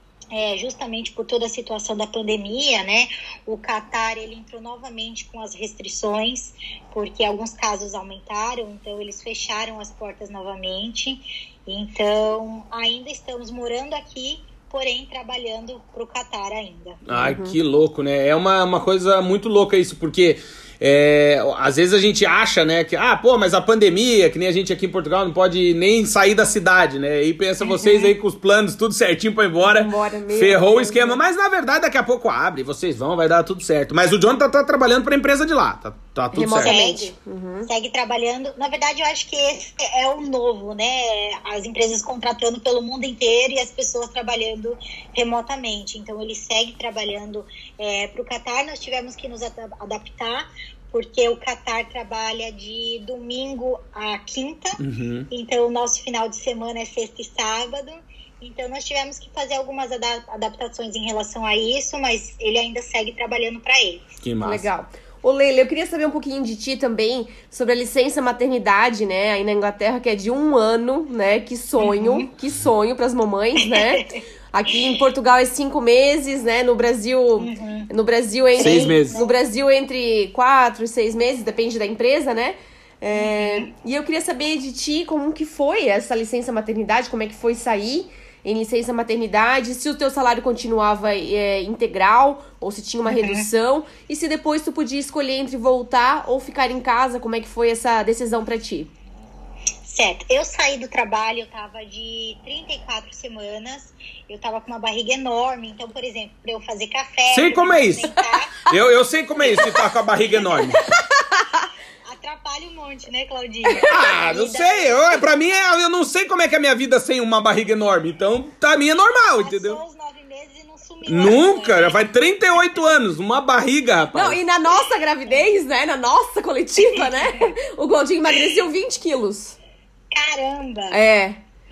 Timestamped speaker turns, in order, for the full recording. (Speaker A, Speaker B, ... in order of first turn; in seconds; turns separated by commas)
Speaker A: 0.3-17.0, Speaker B: 17.1-36.8, Speaker C: 17.1-17.6, Speaker C: 29.6-31.2, Speaker C: 36.3-37.7, Speaker A: 36.6-37.1, Speaker A: 37.7-64.1, Speaker B: 54.8-55.3, Speaker B: 64.2-64.7, Speaker C: 64.4-98.9, Speaker A: 71.8-72.3, Speaker A: 73.7-74.1, Speaker A: 77.4-77.9, Speaker A: 78.5-79.3, Speaker B: 78.6-79.2, Speaker A: 83.1-83.7, Speaker A: 93.1-93.5, Speaker A: 99.8-108.6, Speaker B: 107.3-108.1, Speaker B: 108.7-110.8, Speaker C: 110.9-111.7, Speaker A: 112.0-115.2, Speaker B: 113.8-119.8, Speaker A: 119.4-122.0, Speaker B: 121.1-124.4, Speaker C: 124.1-129.6, Speaker A: 124.7-125.4, Speaker A: 126.8-127.5, Speaker A: 130.1-131.0, Speaker C: 130.9-131.4